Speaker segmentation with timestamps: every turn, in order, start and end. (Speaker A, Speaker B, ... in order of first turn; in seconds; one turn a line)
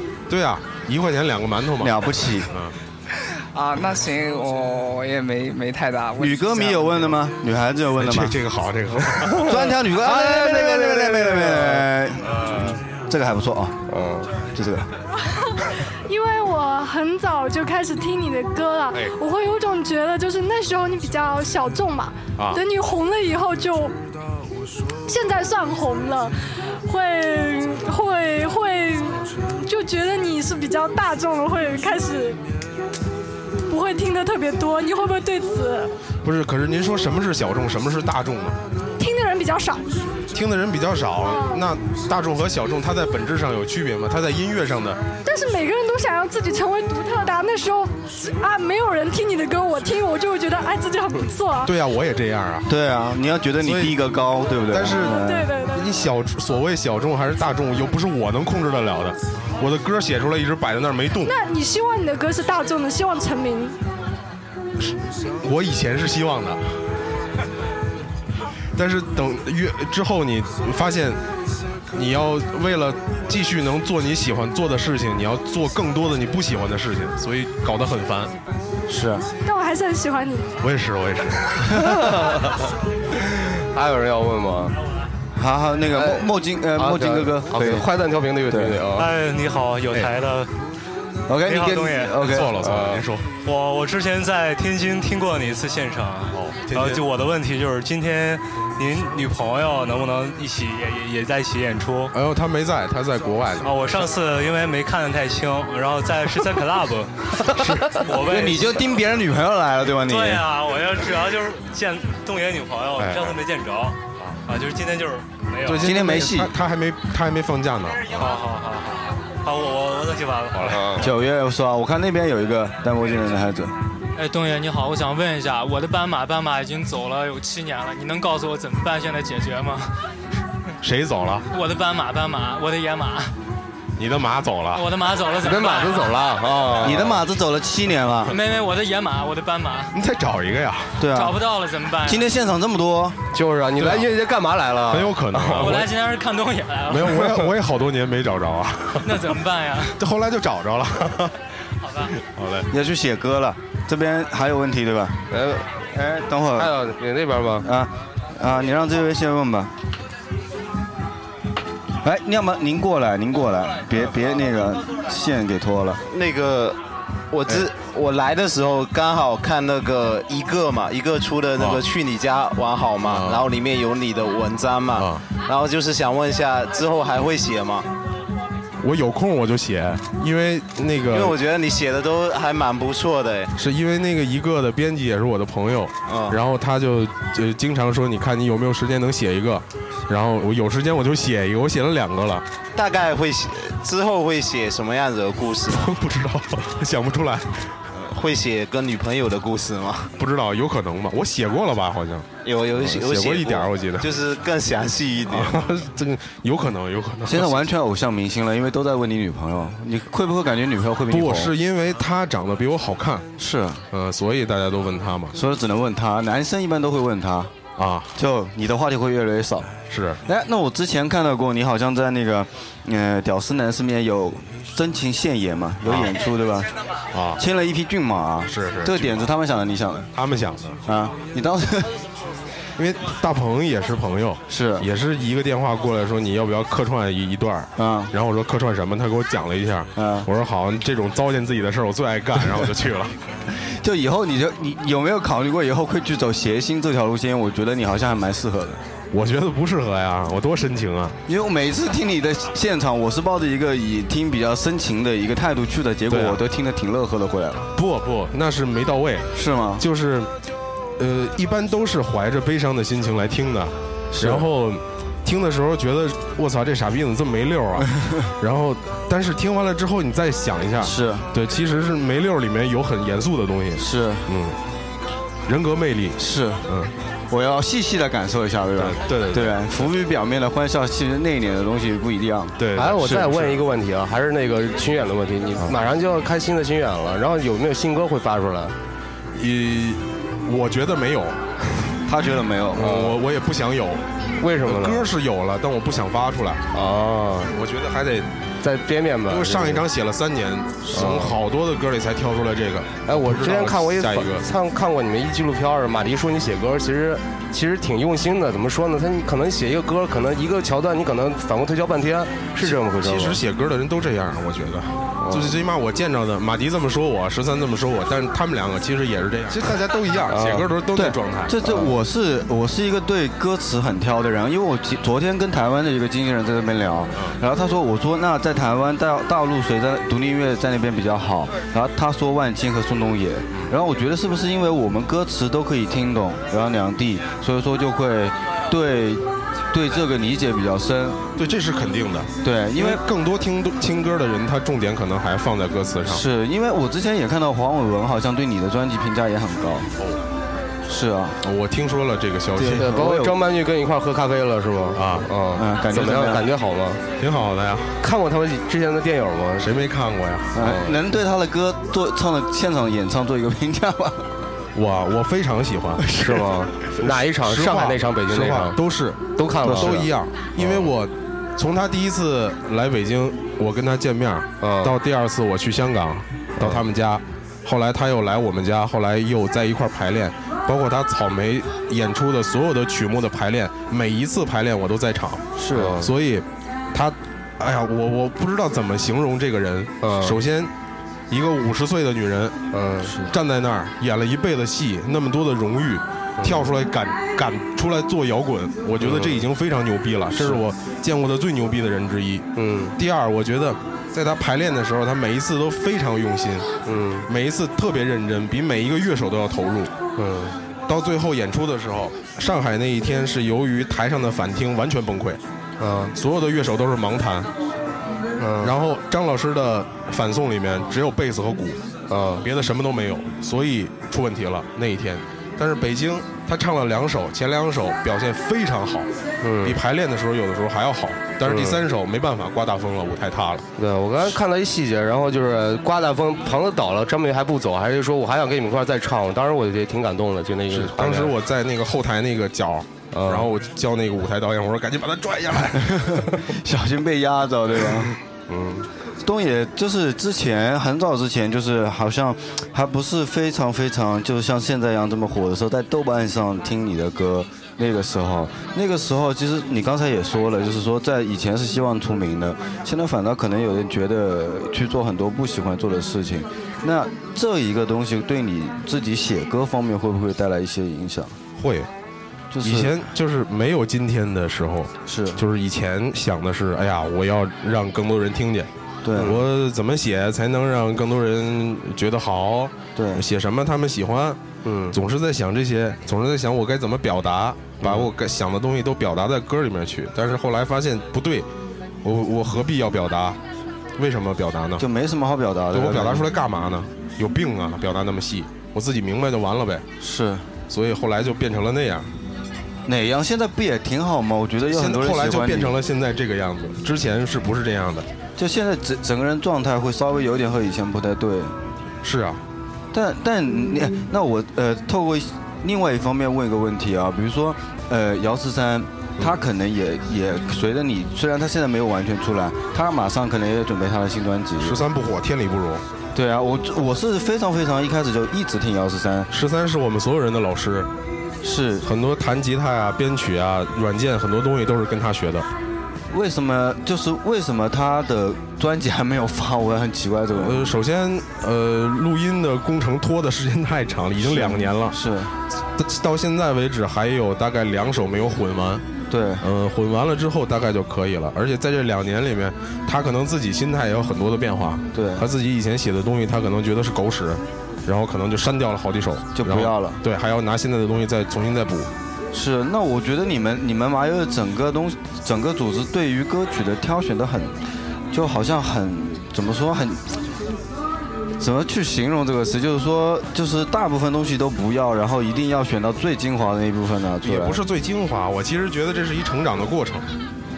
Speaker A: 0.3-2.8
Speaker B: 1.8-2.5
Speaker C: 3.5-7.2
Speaker B: 6.2-8.4
Speaker A: 8.0-11.7
Speaker B: 9.4-13.8
Speaker A: 12.3-12.8
Speaker D: 13.9-14.3
Speaker B: 14.6-14.9
Speaker E: 16.1-23.9
Speaker A: 22.4-22.6
Speaker E: 25.1-32.4
Speaker E: 33.7-35.9
Speaker A: 36.2-38.6
Speaker E: 39.0-39.9
Speaker A: 40.3-45.0
Speaker E: 41.2-41.7
Speaker E: 45.2-51.7
Speaker A: 51.6-52.7
Speaker B: 52.7-55.5
Speaker A: 53.6-54.0
Speaker A: 54.7-61.3
Speaker E: 55.1-55.9
Speaker E: 61.2-63.8
Speaker A: 64.8-66.6
Speaker A: 68.8-71.2
Speaker A: 71.9-78.3
Speaker B: 78.9-79.3
Speaker E: 79.5-80.6
Speaker A: 80.6-81.8
Speaker D: 81.8-82.4
Speaker D: 83.7-84.8
Speaker B: 85.4-87.9
Speaker D: 85.9-89.1
Speaker B: 88.5-88.8
Speaker F: 88.9-90.5
Speaker B: 91.3-92.5
Speaker F: 91.4-92.4
Speaker A: 92.2-93.3
Speaker D: 92.6-93.0
Speaker F: 93.4-102.1
Speaker A: 96.3-97.0
Speaker A: 102.1-103.8
Speaker F: 103.6-109.0
Speaker B: 108.2-110.5
Speaker F: 110.0-115.9
Speaker A: 113.0-113.4
Speaker A: 115.6-118.3
Speaker B: 115.8-116.5
Speaker F: 118.1-121.0
Speaker A: 120.5-121.0
Speaker B: 121.0-123.7
Speaker G: 124.2-129.9
Speaker A: 130.8-131.5
Speaker G: 131.5-133.3
Speaker A: 134.0-134.9
Speaker G: 134.7-136.2
Speaker D: 135.4-137.2
Speaker B: 136.8-138.3
Speaker G: 138.3-139.9
Speaker A: 139.9-141.0
Speaker B: 141.0-141.4
Speaker G: 141.0-142.3
Speaker B: 142.0-143.2
Speaker D: 143.3-145.8
Speaker A: 143.8-144.1
Speaker A: 144.9-145.9
Speaker G: 145.6-147.4
Speaker A: 146.9-149.3
Speaker G: 149.0-150.0
Speaker A: 150.0-151.3
Speaker G: 151.8-152.1
Speaker A: 152.2-152.7
Speaker B: 152.7-155.2
Speaker D: 155.3-155.7
Speaker B: 155.9-156.7
Speaker D: 156.5-157.7
Speaker B: 157.6-159.7
Speaker B: 162.0-166.0
Speaker H: 166.1-166.8
Speaker H: 167.3-177.9
Speaker A: 171.6-171.8
Speaker A: 173.0-173.5
Speaker A: 174.9-175.2
Speaker A: 178.8-181.4
Speaker H: 181.1-183.5
Speaker A: 183.6-192.4
Speaker H: 186.1-186.4
Speaker H: 192.7-195.9
Speaker A: 195.7-197.8
Speaker H: 197.9-200.1
Speaker A: 200.2-204.1
Speaker H: 202.4-205.6
Speaker A: 205.3-207.7
Speaker B: 207.3-211.5
Speaker A: 211.1-213.3
Speaker B: 213.4-213.8
Speaker A: 213.9-215.4
Speaker B: 215.3-217.5
Speaker A: 217.8-218.1
Speaker B: 218.2-226.7
Speaker A: 219.9-220.2
Speaker A: 225.8-226.1
Speaker A: 227.1-227.4
Speaker B: 227.4-230.1
Speaker A: 228.5-229.3
Speaker A: 230.1-230.8
Speaker B: 230.9-232.0
Speaker A: 232.8-243.1
Speaker B: 234.5-234.9
Speaker B: 237.8-238.1
Speaker B: 240.0-240.3
Speaker B: 243.6-248.8
Speaker A: 249.1-251.2
Speaker B: 251.3-257.7
Speaker A: 256.1-256.4
Speaker A: 257.8-260.3
Speaker B: 259.3-259.9
Speaker A: 261.0-274.6
Speaker B: 264.1-264.5
Speaker B: 270.8-271.3
Speaker B: 273.8-274.3
Speaker A: 275.5-276.9
Speaker B: 276.2-276.6
Speaker B: 277.3-282.6
Speaker A: 278.8-279.6
Speaker A: 282.6-283.6
Speaker D: 282.8-288.8
Speaker A: 289.4-291.4
Speaker B: 292.1-292.9
Speaker D: 292.8-293.2
Speaker A: 292.8-294.0
Speaker D: 294.4-295.1
Speaker A: 294.6-296.6
Speaker D: 296.7-297.5
Speaker A: 297.5-298.3
Speaker D: 298.6-299.9
Speaker A: 299.3-304.5
Speaker D: 300.9-301.4
Speaker D: 303.1-313.4
Speaker A: 312.6-321.9
Speaker D: 315.2-315.5
Speaker D: 320.3-320.7
Speaker B: 320.9-341.2
Speaker A: 341.4-346.2
Speaker B: 342.4-343.0
Speaker B: 346.1-349.9
Speaker B: 350.9-351.4
Speaker A: 351.4-352.9
Speaker B: 352.5-353.4
Speaker D: 352.6-357.0
Speaker A: 354.9-355.3
Speaker B: 355.6-356.5
Speaker A: 357.2-357.9
Speaker D: 358.0-359.7
Speaker A: 359.6-360.6
Speaker B: 360.5-364.3
Speaker D: 360.6-361.0
Speaker A: 364.8-366.1
Speaker B: 366.0-366.4
Speaker D: 366.1-368.8
Speaker A: 367.0-385.4
Speaker D: 369.4-370.9
Speaker B: 369.6-370.1
Speaker D: 374.6-374.9
Speaker B: 385.6-386.0
Speaker D: 385.7-386.1
Speaker A: 386.0-390.7
Speaker D: 390.0-390.4
Speaker A: 391.3-392.6
Speaker D: 392.7-393.1
Speaker B: 393.1-393.3
Speaker A: 393.3-406.7
Speaker D: 396.4-396.7
Speaker D: 399.0-399.4
Speaker D: 400.4-400.6
Speaker D: 402.6-403.0
Speaker D: 406.9-407.3
Speaker A: 407.3-409.9
Speaker D: 410.2-410.6
Speaker A: 410.9-415.4
Speaker D: 415.8-416.1
Speaker A: 416.2-417.5
Speaker D: 418.4-418.7
Speaker A: 418.6-421.8
Speaker D: 422.1-422.5
Speaker A: 422.4-429.1
Speaker D: 429.4-429.8
Speaker A: 429.6-433.7
Speaker D: 431.4-431.8
Speaker D: 433.8-441.3
Speaker A: 440.7-446.3
Speaker D: 443.1-443.5
Speaker B: 445.9-448.1
Speaker D: 448.5-448.9
Speaker B: 449.2-471.4
Speaker A: 471.6-471.9
Speaker B: 472.5-472.9
Speaker A: 472.6-484.4
Speaker B: 475.1-475.4
Speaker B: 479.0-479.4
Speaker B: 482.9-483.2
Speaker D: 484.6-485.0
Speaker A: 484.9-491.5
Speaker D: 487.8-488.1
Speaker A: 492.0-493.4
Speaker A: 494.0-494.9
Speaker B: 494.8-496.3
Speaker A: 495.7-499.9
Speaker B: 500.0-500.5
Speaker A: 500.7-502.1
Speaker B: 502.9-505.8
Speaker A: 504.7-508.1
Speaker B: 508.4-511.6
Speaker A: 512.0-512.4
Speaker B: 512.9-524.8
Speaker A: 524.6-525.8
Speaker B: 526.1-529.3
Speaker A: 529.3-530.9
Speaker B: 531.4-531.9
Speaker A: 531.8-535.5
Speaker B: 536.1-540.7
Speaker A: 540.3-545.0
Speaker B: 544.2-545.3
Speaker A: 545.8-548.9
Speaker B: 549.1-549.5
Speaker A: 549.4-561.9
Speaker B: 554.9-555.3
Speaker B: 559.4-560.0
Speaker B: 562.3-567.6
Speaker B: 568.1-570.0
Speaker B: 571.4-577.6
Speaker A: 577.2-580.1